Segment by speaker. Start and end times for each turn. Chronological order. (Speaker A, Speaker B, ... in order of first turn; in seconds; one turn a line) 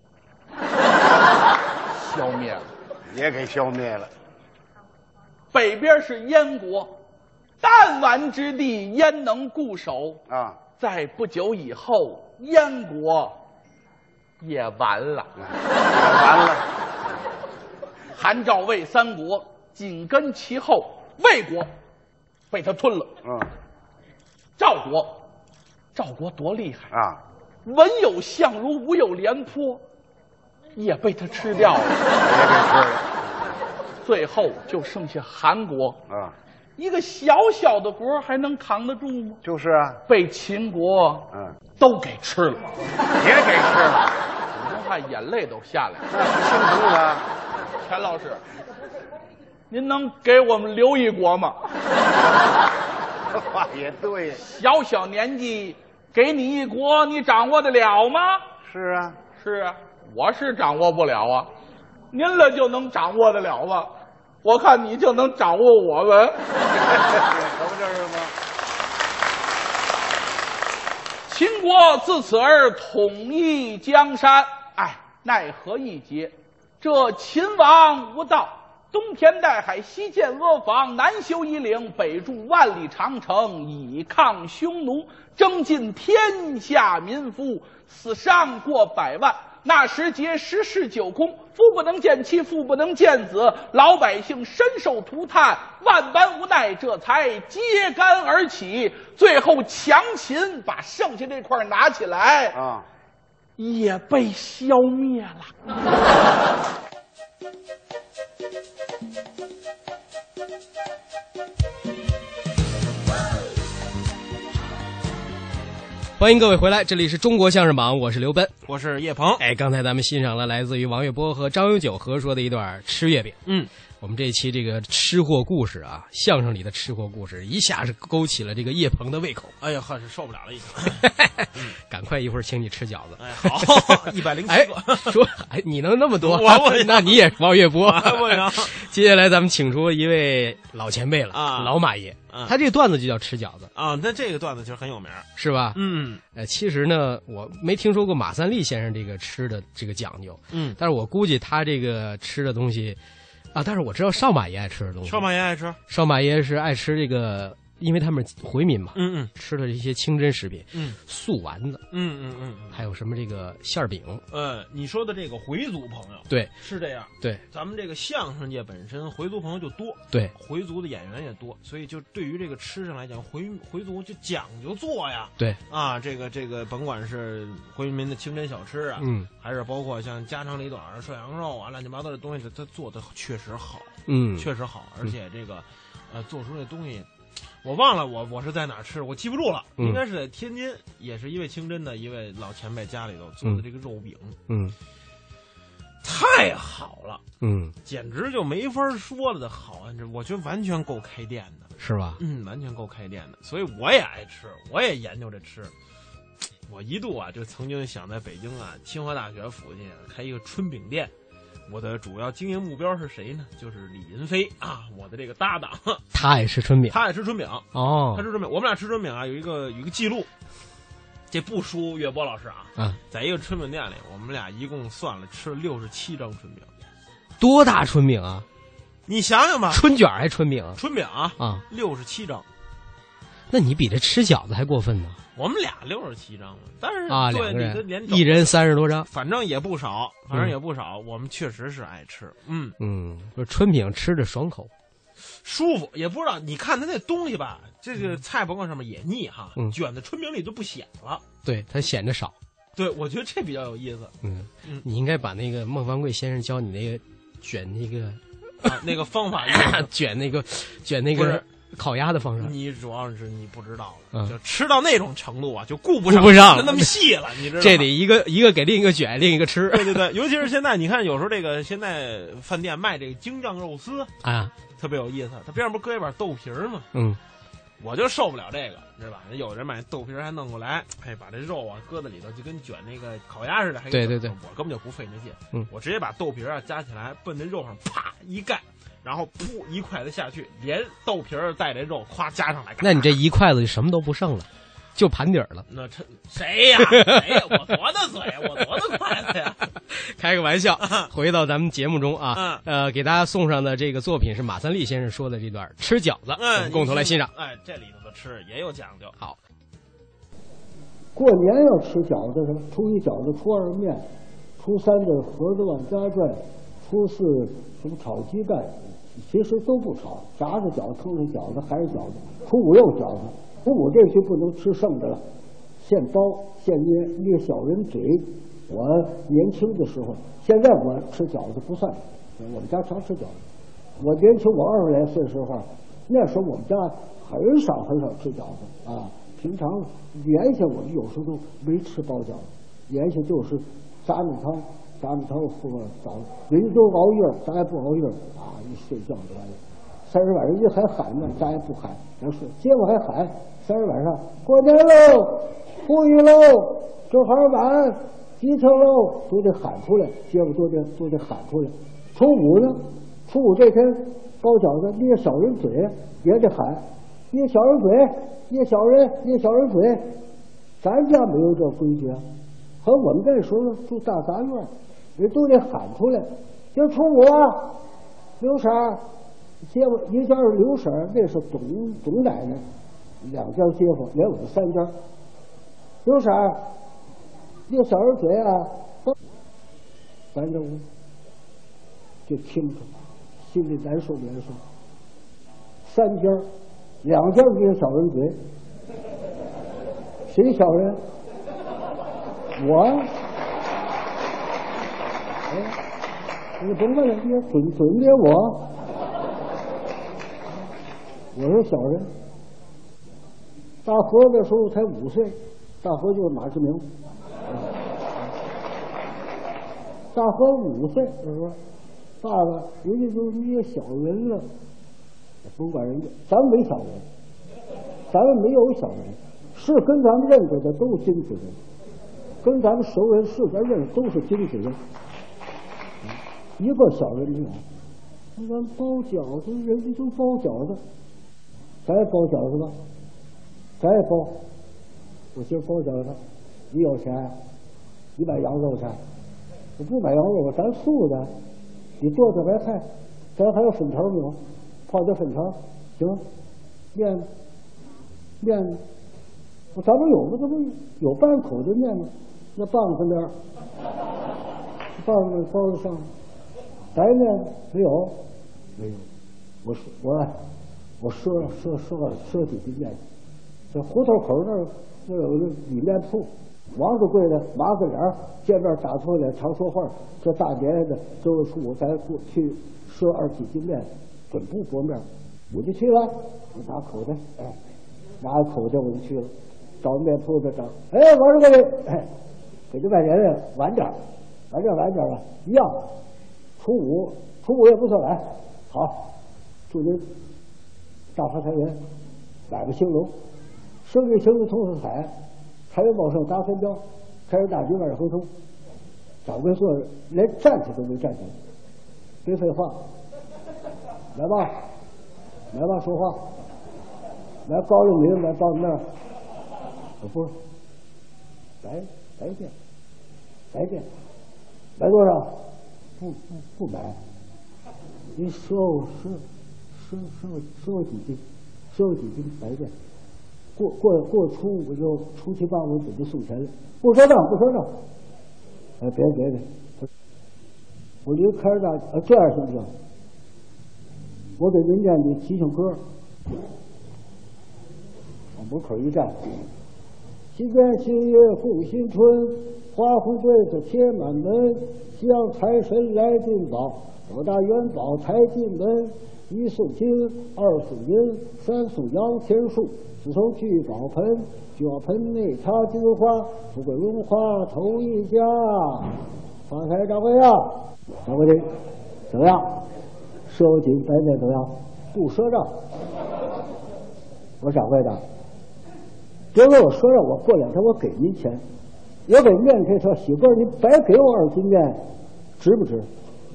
Speaker A: 1.9-2.7
Speaker B: 3.1-4.1
Speaker A: 5.5-7.0
Speaker A: 7.6-13.4
Speaker B: 10.3-10.6
Speaker A: 14.4-15.3
Speaker B: 15.4-16.6
Speaker A: 18.1-21.7
Speaker A: 22.5-23.1
Speaker A: 24.6-25.2
Speaker A: 25.9-26.9
Speaker B: 26.9-27.2
Speaker A: 27.6-29.8
Speaker A: 30.7-32.0
Speaker B: 32.2-33.2
Speaker A: 34.0-36.0
Speaker B: 36.1-36.3
Speaker A: 36.8-39.4
Speaker B: 39.4-40.0
Speaker A: 40.1-42.6
Speaker B: 43.1-44.1
Speaker A: 44.5-46.0
Speaker B: 46.1-47.3
Speaker A: 47.8-48.4
Speaker A: 49.7-51.6
Speaker B: 53.3-54.4
Speaker A: 54.4-58.4
Speaker B: 58.6-59.2
Speaker A: 59.4-61.5
Speaker A: 62.1-63.9
Speaker A: 64.4-66.4
Speaker B: 66.9-68.3
Speaker A: 71.3-102.6
Speaker B: 102.5-102.9
Speaker A: 103.6-105.5
Speaker C: 116.2-118.5
Speaker D: 118.7-119.4
Speaker C: 119.4-123.4
Speaker C: 124.0-129.5
Speaker D: 129.6-131.7
Speaker C: 131.0-143.7
Speaker D: 133.2-135.2
Speaker D: 136.2-138.8
Speaker D: 141.3-142.6
Speaker D: 143.7-146.2
Speaker C: 145.4-145.8
Speaker C: 146.3-153.0
Speaker D: 150.5-150.8
Speaker C: 153.5-155.3
Speaker D: 155.0-155.8
Speaker C: 155.9-161.8
Speaker D: 158.9-159.3
Speaker D: 160.7-161.0
Speaker D: 161.9-162.8
Speaker C: 162.7-164.2
Speaker D: 164.3-187.1
Speaker C: 179.0-179.3
Speaker C: 184.1-184.5
Speaker D: 187.6-194.4
Speaker C: 194.5-194.7
Speaker D: 196.0-197.3
Speaker C: 197.4-197.7
Speaker D: 197.8-205.7
Speaker C: 201.8-202.2
Speaker D: 206.7-211.1
Speaker D: 211.7-216.1
Speaker C: 216.1-217.0
Speaker D: 216.9-220.3
Speaker C: 217.7-218.2
Speaker D: 221.3-226.7
Speaker C: 227.4-228.4
Speaker D: 229.1-229.8
Speaker C: 229.7-230.8
Speaker D: 230.8-232.4
Speaker C: 231.4-231.6
Speaker C: 233.5-235.2
Speaker D: 235.3-242.8
Speaker C: 237.1-239.1
Speaker C: 242.8-244.7
Speaker D: 245.4-251.3
Speaker C: 251.4-252.3
Speaker D: 252.8-254.9
Speaker C: 254.2-258.8
Speaker D: 258.6-259.9
Speaker C: 259.5-262.5
Speaker D: 261.1-261.5
Speaker D: 262.4-267.9
Speaker C: 266.1-266.9
Speaker C: 267.4-270.1
Speaker D: 269.7-274.1
Speaker C: 274.2-274.5
Speaker D: 274.7-276.9
Speaker C: 276.9-277.2
Speaker D: 277.8-293.2
Speaker C: 283.9-284.4
Speaker C: 292.8-295.7
Speaker D: 295.7-299.7
Speaker C: 296.9-297.4
Speaker C: 300.2-307.3
Speaker D: 300.8-301.1
Speaker D: 302.3-302.6
Speaker D: 306.4-309.2
Speaker E: 311.1-325.2
Speaker E: 325.8-333.4
Speaker E: 334.0-370.1
Speaker E: 370.8-372.2
Speaker E: 372.8-377.8
Speaker E: 378.4-379.0
Speaker E: 379.6-382.6
Speaker E: 383.2-384.9
Speaker E: 386.0-386.7
Speaker E: 387.7-389.1
Speaker E: 390.3-390.9
Speaker E: 392.3-394.6
Speaker E: 395.8-396.5
Speaker E: 397.0-398.4
Speaker E: 400.3-401.0
Speaker E: 402.6-403.1
Speaker E: 405.5-405.8
Speaker E: 406.6-408.7
Speaker E: 411.4-412.1
Speaker E: 413.8-416.9
Speaker E: 417.5-417.7
Speaker E: 420.1-421.6
Speaker E: 422.2-424.4
Speaker E: 425.4-427.1
Speaker E: 428.1-431.6
Speaker E: 432.4-434.8
Speaker E: 436.0-437.6
Speaker E: 438.4-440.8
Speaker E: 441.9-442.8
Speaker E: 443.8-444.4
Speaker E: 445.3-446.2
Speaker E: 446.7-447.4
Speaker E: 448.2-449.0
Speaker E: 449.8-451.3
Speaker E: 452.0-456.2
Speaker E: 456.9-457.3
Speaker E: 458.4-458.8
Speaker E: 459.7-463.4
Speaker E: 465.0-466.1
Speaker E: 466.9-468.2
Speaker E: 468.8-469.1
Speaker E: 469.6-470.4
Speaker E: 471.0-473.0
Speaker E: 473.7-487.6
Speaker E: 488.2-492.1
Speaker E: 492.7-494.0
Speaker E: 494.5-495.9
Speaker E: 496.6-499.2
Speaker E: 499.7-500.1
Speaker E: 501.1-501.8
Speaker E: 502.5-503.2
Speaker E: 503.8-505.1
Speaker E: 505.7-508.3
Speaker E: 509.2-511.4
Speaker E: 512.2-512.8
Speaker E: 514.1-514.6
Speaker E: 515.5-516.3
Speaker E: 517.5-518.9
Speaker E: 520.0-520.4
Speaker E: 521.6-522.5
Speaker E: 523.5-523.9
Speaker E: 524.8-525.5
Speaker E: 526.0-527.0
Speaker E: 528.1-532.7
Speaker E: 533.6-537.8
Speaker E: 538.8-539.9
Speaker E: 541.0-542.7
Speaker E: 544.4-545.8
Speaker E: 548.4-549.4
Speaker E: 550.3-571.5
Speaker E: 572.1-572.7
Speaker E: 573.3-575.6
Speaker E: 577.4-578.0
Speaker E: 579.3-581.4
Speaker E: 582.1-584.8
Speaker E: 585.4-585.9